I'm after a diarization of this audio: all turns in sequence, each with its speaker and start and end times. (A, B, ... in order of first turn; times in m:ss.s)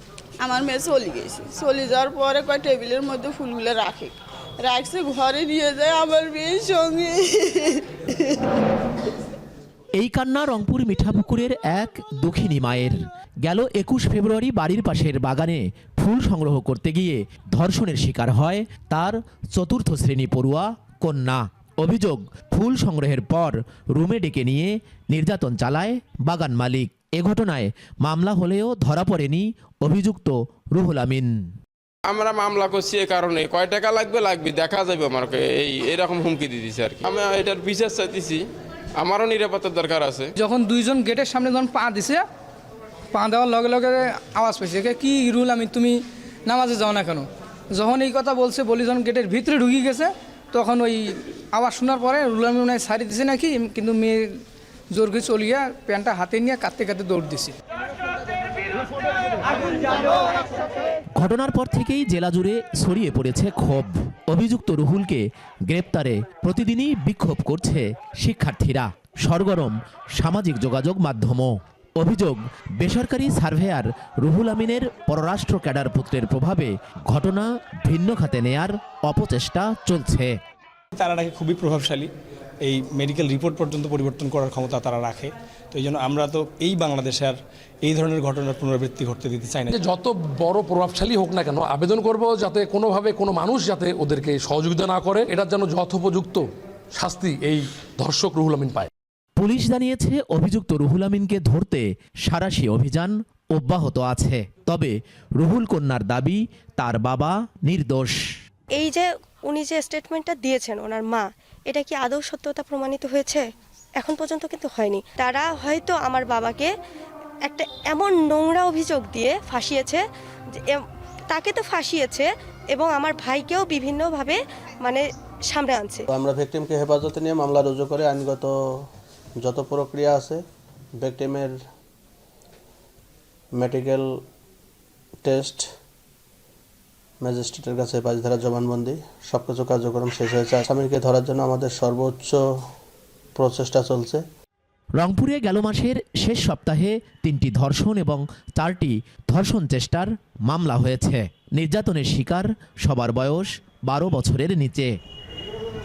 0:00.4-0:08.7 A
0:10.0-0:31.3 B
0:32.0-0:40.3 C
0:40.4-0:42.2 D
0:43.1-0:54.3 D
0:54.9-0:57.5 D
1:01.2-1:20.3 B
1:21.0-1:22.1 E
1:22.6-1:29.8 E
1:29.7-1:36.4 F
1:37.0-1:38.9 F
1:39.4-1:48.2 B
1:48.8-1:53.4 G
1:54.0-1:56.7 G
1:57.5-2:00.0 G
2:00.5-2:06.0 G
2:06.1-2:08.5 H
2:09.4-2:10.4 H
2:11.0-2:11.5 H
2:13.6-2:14.1 H
2:15.2-2:15.7 H
2:17.2-2:22.4 H
2:23.4-2:24.2 H
2:25.0-2:34.9 B